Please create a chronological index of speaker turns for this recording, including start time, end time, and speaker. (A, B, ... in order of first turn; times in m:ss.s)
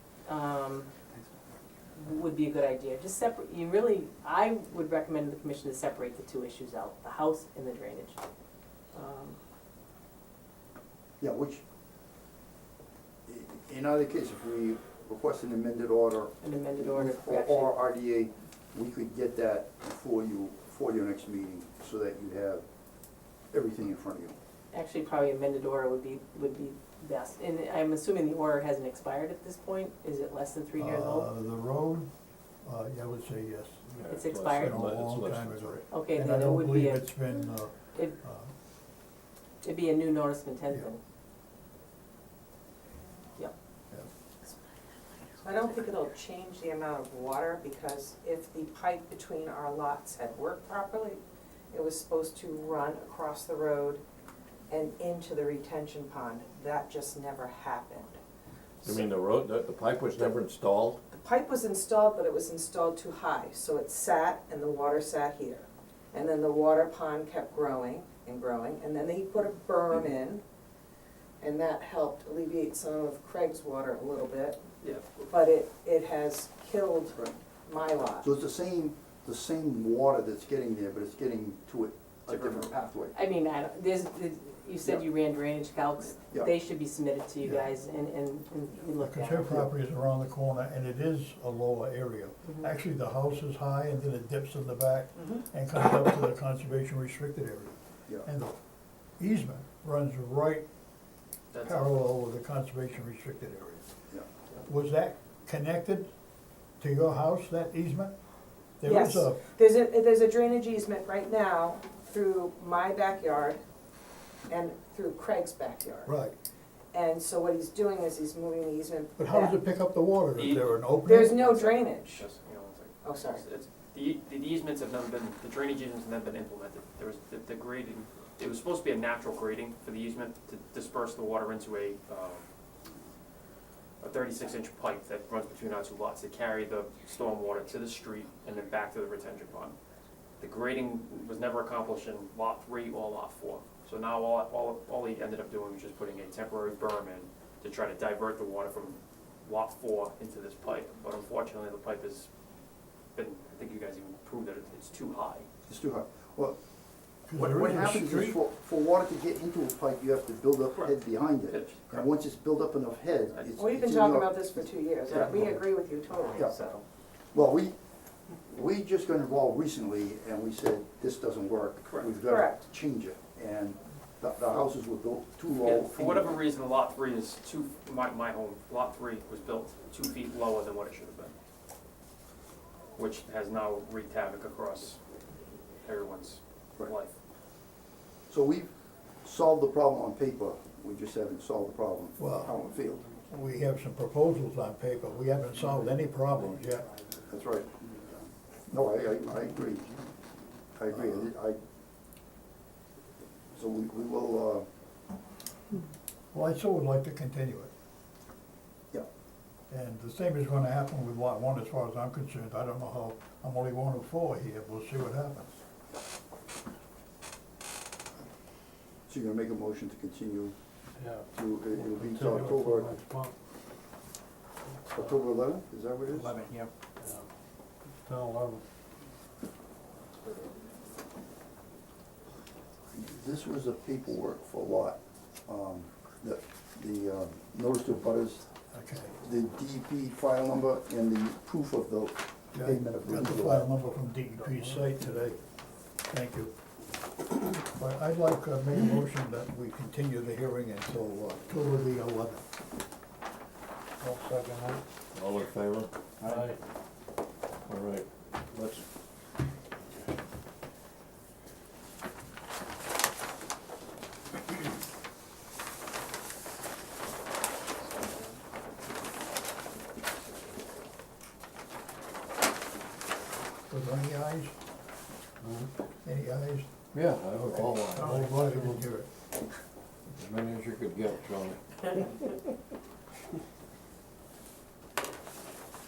0:00.2-0:00.9 A
0:02.0-0:08.2 A
0:08.9-0:09.4 A
0:11.2-0:11.6 B
0:13.3-0:22.6 B
0:16.4-0:17.8 A
0:23.5-0:24.4 B
0:24.7-0:31.3 A
0:30.8-0:32.1 C
0:32.6-0:38.5 C
0:33.9-0:35.9 D
0:34.1-0:34.7 A
0:35.9-0:37.1 A
0:39.6-0:41.0 A
0:45.4-0:54.0 E
0:54.7-0:58.2 E
0:58.8-1:01.0 D
1:01.1-1:10.4 E
1:11.4-1:14.6 E
1:14.8-1:15.3 F
1:15.3-1:18.3 E
1:18.2-1:23.2 B
1:22.3-1:22.8 F
1:23.1-1:29.6 A
1:27.4-1:27.7 C
1:29.0-1:38.5 C
1:39.2-1:40.6 C
1:41.5-1:41.9 F
1:41.6-1:43.9 C
1:44.6-1:46.1 C
1:46.8-1:48.2 C
1:48.8-1:49.4 C
1:48.8-1:53.6 E
1:54.5-1:56.1 E
1:56.0-1:56.3 C
1:56.9-1:59.6 E
1:59.2-2:01.4 C
2:00.3-2:12.4 F
2:01.0-2:02.2 E
2:03.0-2:03.4 E
2:14.0-2:19.8 F
2:20.4-2:32.3 F
2:33.1-2:35.4 F
2:35.7-2:36.6 B
2:37.3-2:38.4 C
2:37.3-2:45.6 B
2:40.7-2:42.1 F
2:43.6-2:46.8 E
2:45.1-2:45.6 F
2:47.3-2:47.8 B
2:48.4-2:56.4 B
2:52.2-2:52.7 E
2:55.6-3:01.4 F
3:03.0-3:05.0 F
3:05.8-3:07.2 F
3:08.3-3:13.0 B
3:12.2-3:12.5 C
3:13.3-3:16.9 C
3:17.3-3:18.1 B
3:18.7-3:20.1 B
3:20.7-3:21.6 B
3:20.9-3:21.2 C
3:23.5-3:24.7 B
3:26.3-3:27.7 C
3:29.7-3:35.6 C
3:39.1-3:40.6 B
3:41.3-3:43.0 B
3:41.7-3:43.3 G
3:44.9-3:46.5 B
3:48.0-3:48.6 G
3:52.9-3:58.5 B
3:58.7-3:59.2 C
3:59.2-4:03.7 B
4:02.5-4:05.4 C
4:04.5-4:04.8 G
4:06.1-4:06.5 C
4:07.5-4:12.4 C
4:14.0-4:14.8 G
4:15.1-4:15.9 D
4:16.2-4:16.6 G
4:17.6-4:18.8 D
4:27.8-4:28.4 F
4:33.7-4:34.6 C
4:36.0-4:36.7 C
4:36.9-4:38.7 D
4:37.4-4:39.1 C
4:40.1-4:42.2 D